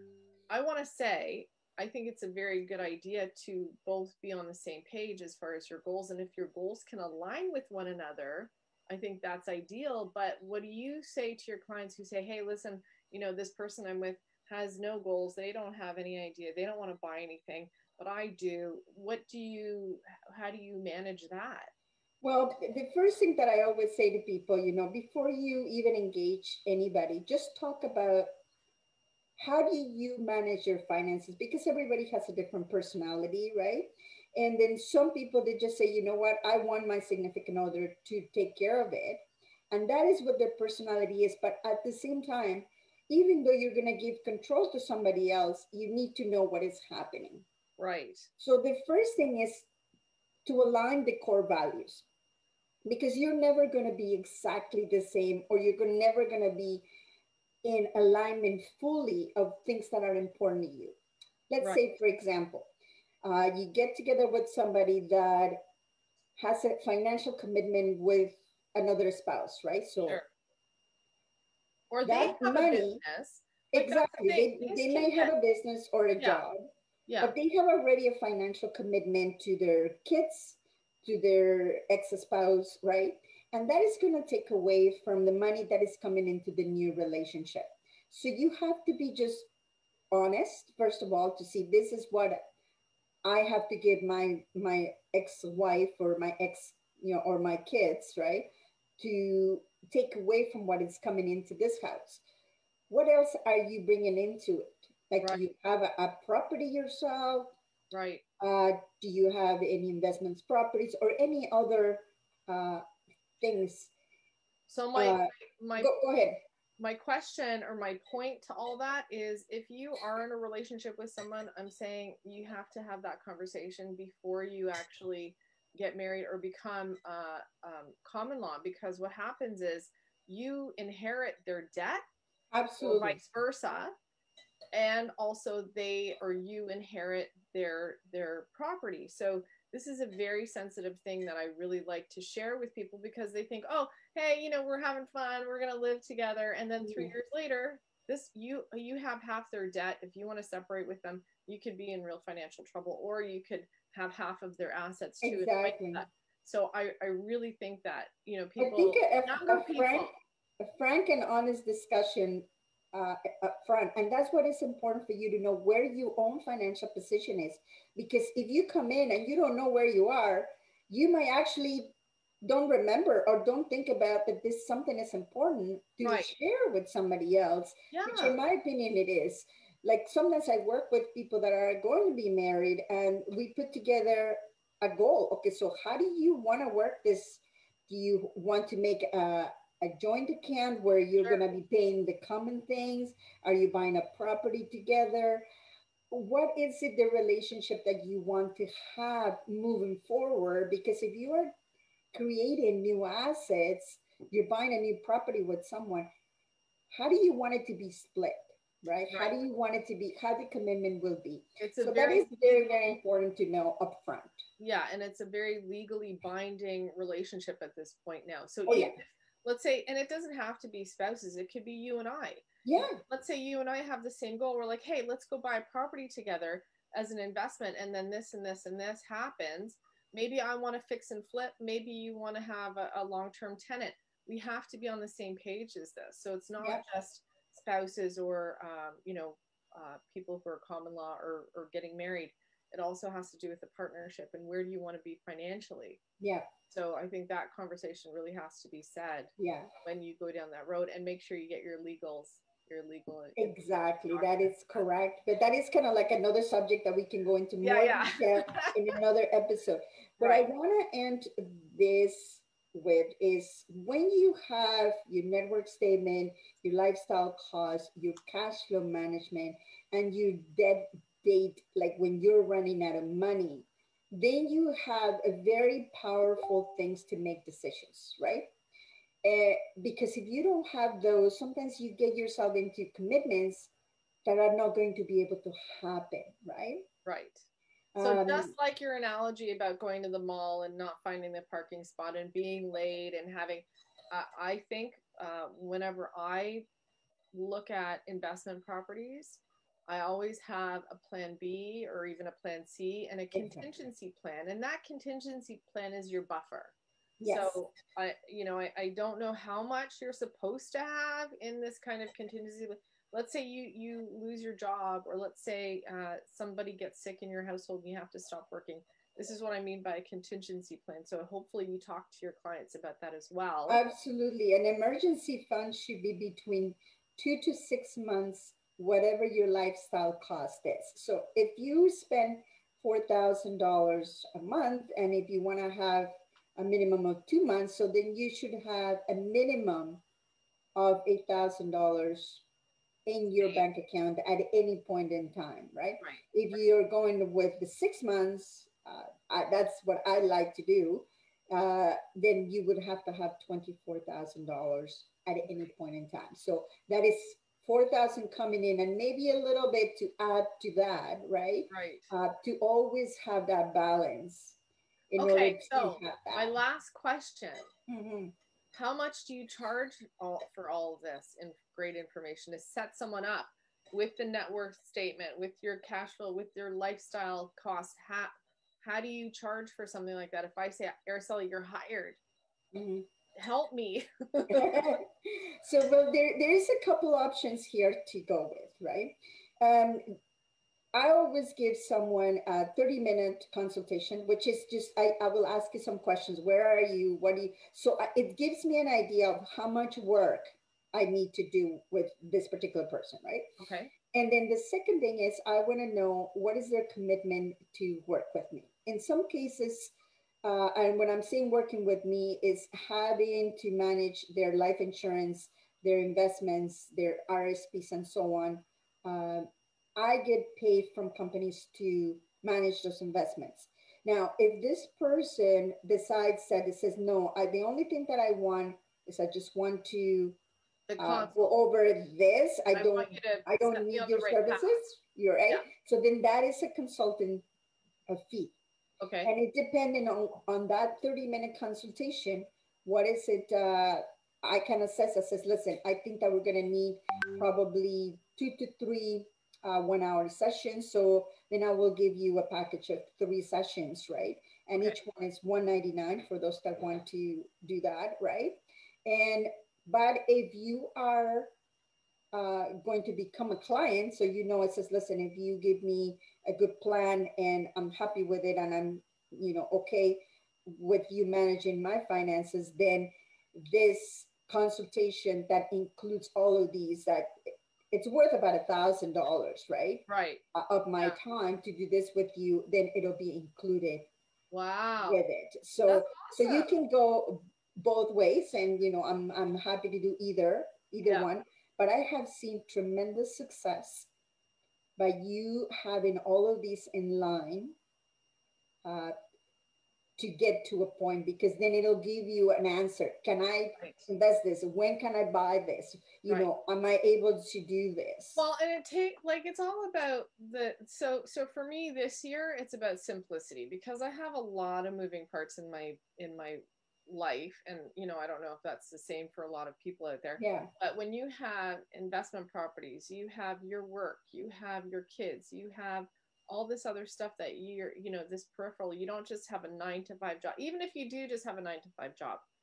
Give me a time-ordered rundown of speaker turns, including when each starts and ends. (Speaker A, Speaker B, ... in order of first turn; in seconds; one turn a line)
Speaker A: 0.5-21.7
Speaker B: 22.2-28.3
Speaker B: 29.4-47.5
Speaker A: 47.8-48.3
Speaker B: 48.4-49.7
Speaker B: 50.5-52.0
Speaker B: 52.9-56.8
Speaker B: 57.6-61.0
Speaker B: 61.5-62.7
Speaker B: 63.2-65.6
Speaker B: 66.3-70.2
Speaker A: 71.9-75.3
Speaker B: 72.0-73.0
Speaker B: 73.7-76.7
Speaker A: 76.2-76.4
Speaker A: 77.1-77.3
Speaker B: 77.2-89.5
Speaker B: 90.1-92.4
Speaker B: 93.2-102.2
Speaker B: 102.9-107.5
Speaker A: 107.9-108.2
Speaker B: 108.4-112.8
Speaker B: 113.4-113.9
Speaker A: 114.7-115.9
Speaker B: 114.9-116.4
Speaker A: 116.8-132.0
Speaker B: 132.5-133.2
Speaker A: 132.8-133.9
Speaker A: 134.7-160.1
Speaker B: 146.8-147.1
Speaker B: 155.2-156.0
Speaker B: 158.6-171.9
Speaker B: 172.4-195.4
Speaker A: 176.0-176.3
Speaker A: 177.9-178.3
Speaker B: 196.1-201.5
Speaker B: 202.1-206.1
Speaker B: 206.9-214.4
Speaker A: 209.1-209.3
Speaker A: 211.6-212.3
Speaker A: 214.6-222.5
Speaker B: 218.7-219.0
Speaker B: 222.6-223.0
Speaker A: 223.0-246.0
Speaker B: 246.2-246.5
Speaker A: 246.7-249.3
Speaker B: 249.4-249.7
Speaker A: 249.8-253.5
Speaker B: 253.3-278.5
Speaker A: 254.1-254.5
Speaker A: 257.6-259.0
Speaker B: 279.2-283.7
Speaker B: 284.2-286.9
Speaker A: 287.0-287.4
Speaker B: 287.9-288.5
Speaker A: 288.0-296.6
Speaker A: 297.3-306.7
Speaker B: 303.3-303.7
Speaker B: 307.2-307.6
Speaker A: 307.3-323.8
Speaker B: 323.7-340.0
Speaker B: 340.8-342.4
Speaker B: 343.1-364.6
Speaker A: 361.7-362.1
Speaker B: 365.1-366.5
Speaker A: 365.2-367.7
Speaker B: 367.9-368.3
Speaker A: 368.7-382.2
Speaker B: 382.7-383.1
Speaker A: 383.4-384.9
Speaker B: 384.5-390.0
Speaker B: 390.9-403.4
Speaker A: 403.6-403.9
Speaker B: 404.1-409.9
Speaker B: 410.4-430.4
Speaker A: 430.9-431.5
Speaker B: 431.0-437.4
Speaker A: 432.7-434.8
Speaker B: 438.1-438.5
Speaker A: 439.0-439.3
Speaker B: 439.2-461.5
Speaker B: 462.3-477.3
Speaker B: 477.9-484.1
Speaker A: 480.1-480.4
Speaker A: 484.5-485.2
Speaker B: 485.0-494.1
Speaker A: 485.9-486.7
Speaker A: 491.0-491.3
Speaker B: 495.0-497.8
Speaker B: 498.8-499.1
Speaker B: 500.2-508.4
Speaker A: 508.4-532.4
Speaker B: 520.4-520.7